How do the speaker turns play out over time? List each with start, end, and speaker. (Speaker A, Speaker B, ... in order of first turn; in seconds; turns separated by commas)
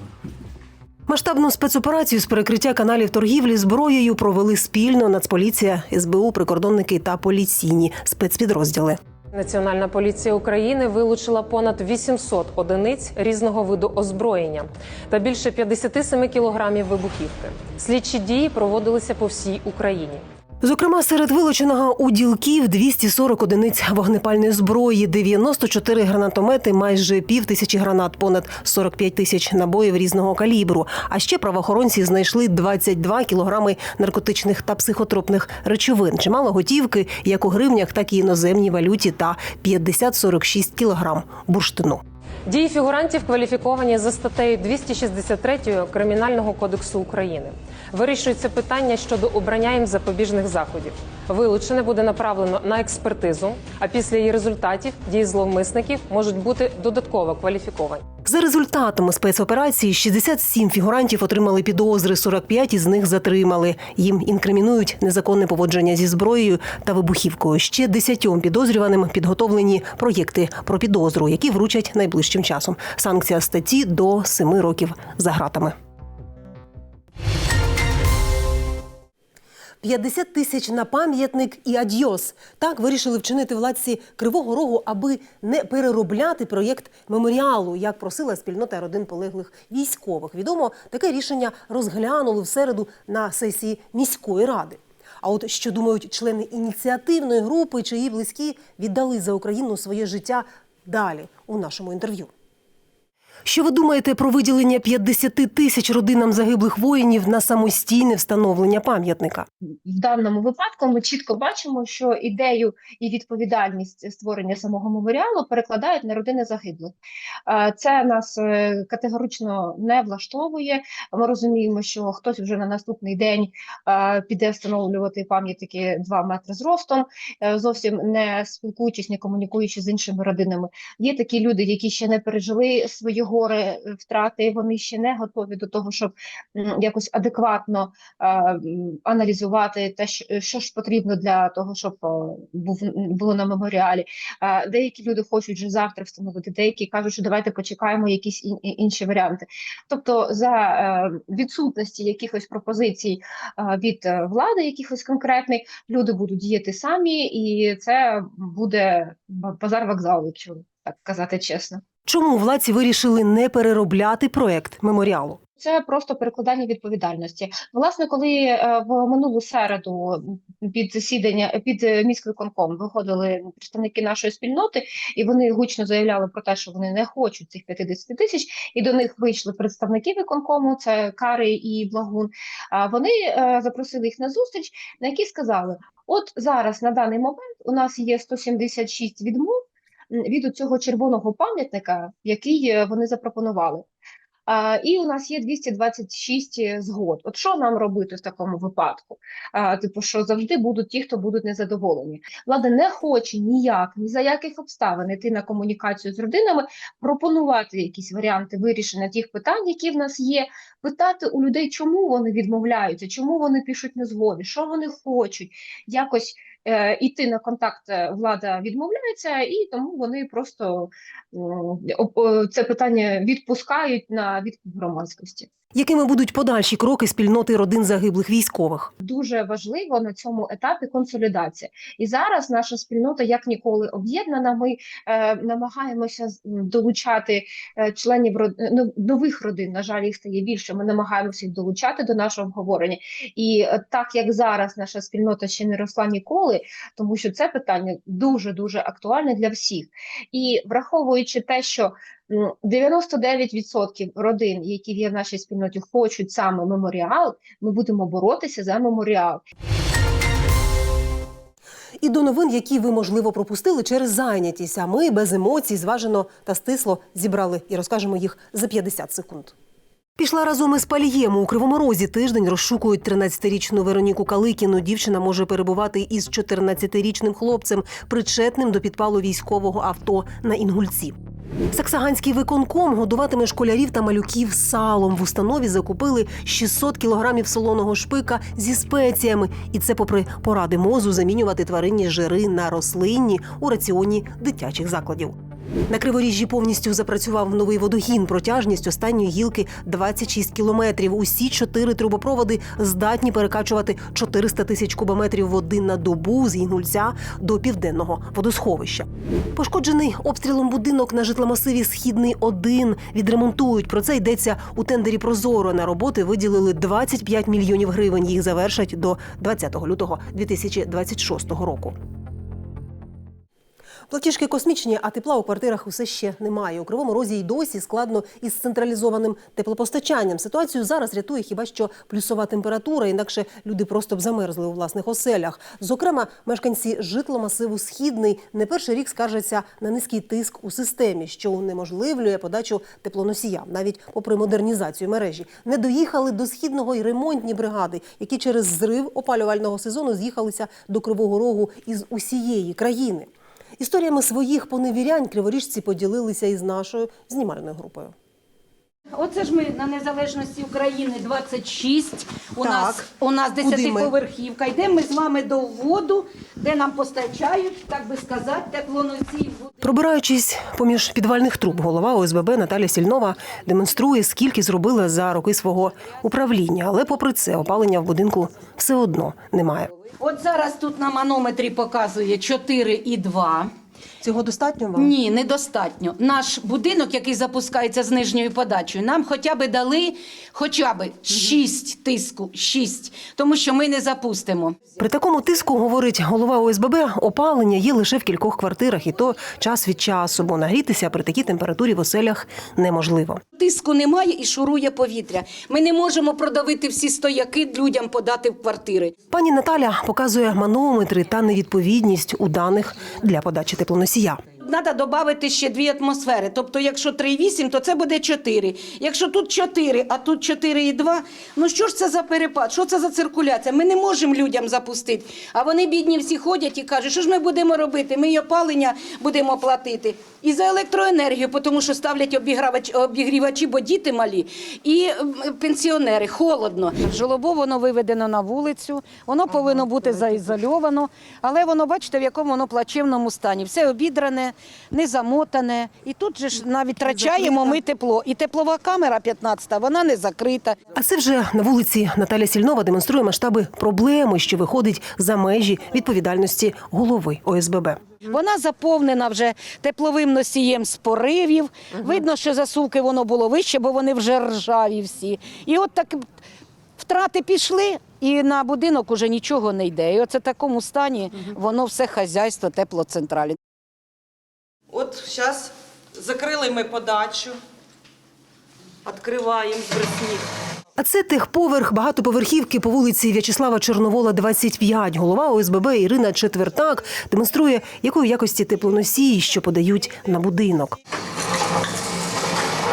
Speaker A: 1.1-9.0, Speaker B: 9.3-20.2, Speaker A: 20.6-42.0, Speaker B: 42.5-58.0, Speaker A: 58.2-75.8, Speaker A: 79.8-102.3, Speaker A: 103.5-109.5, Speaker C: 109.9-117.0, Speaker C: 117.5-161.8, Speaker A: 162.1-165.4, Speaker C: 165.6-189.6, Speaker C: 190.1-193.8, Speaker C: 194.5-225.5, Speaker A: 225.8-228.9, Speaker C: 229.0-259.4, Speaker A: 262.0-269.5, Speaker A: 270.2-281.1, Speaker A: 281.7-295.4, Speaker A: 295.9-321.9, Speaker A: 324.1-358.1, Speaker D: 359.1-369.7, Speaker A: 362.6-363.1, Speaker A: 363.6-364.1, Speaker A: 369.8-379.9, Speaker D: 380.2-383.7, Speaker A: 384.2-385.1, Speaker D: 384.9-394.9, Speaker A: 395.0-403.4, Speaker D: 403.6-409.1, Speaker A: 409.3-414.4, Speaker D: 414.6-450.8, Speaker A: 447.1-447.8, Speaker A: 450.9-458.2, Speaker D: 458.2-466.3, Speaker D: 467.0-473.6, Speaker E: 474.9-477.6, Speaker E: 479.1-480.4, Speaker A: 481.0-491.0